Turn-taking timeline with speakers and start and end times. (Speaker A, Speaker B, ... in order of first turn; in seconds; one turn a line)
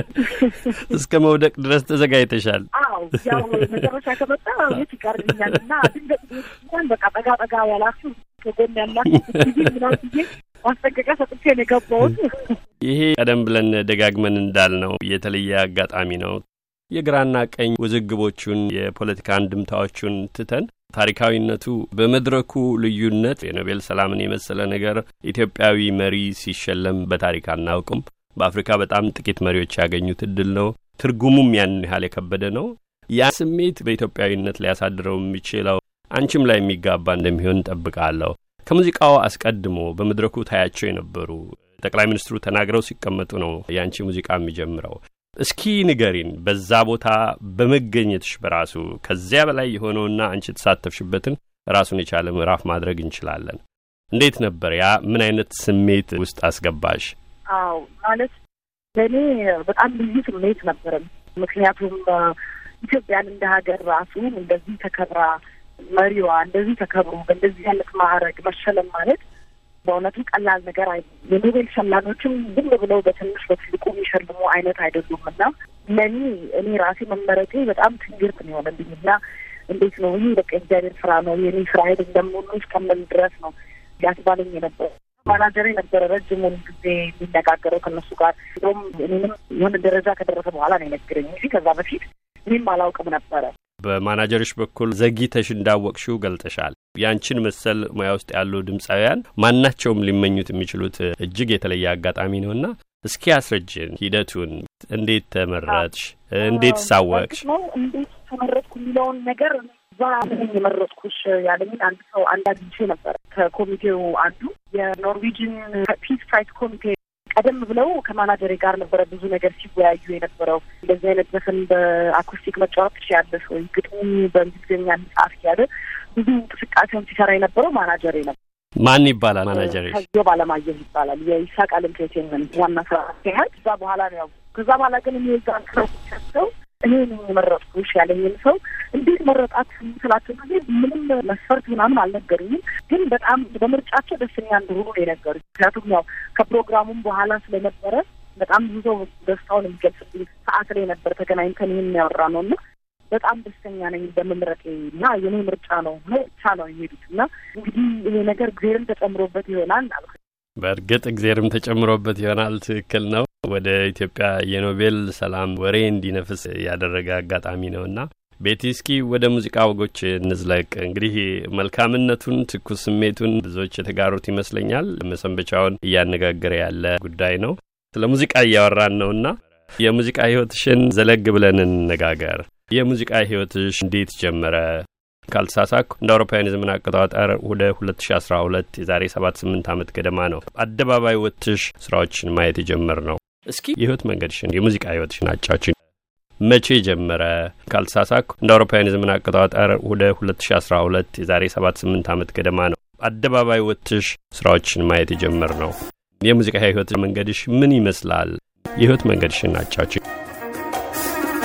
Speaker A: 0.2-0.9
Speaker B: 0.8-3.9
Speaker A: 2.7-12.6
Speaker B: 5.2-5.6
Speaker B: 12.8-53.6
Speaker B: 54.1-57.1
Speaker A: 57.5-58.3
Speaker A: 59.0-65.4
Speaker A: 65.9-69.2
Speaker A: 69.8-79.2
Speaker A: 79.7-93.5
Speaker B: 93.8-107.5
Speaker A: 106.4-128.4
Speaker B: 128.8-130.0
Speaker A: 129.5-152.6
Speaker A: 153.1-160.2
Speaker B: 160.6-195.7
Speaker B: 196.4-210.0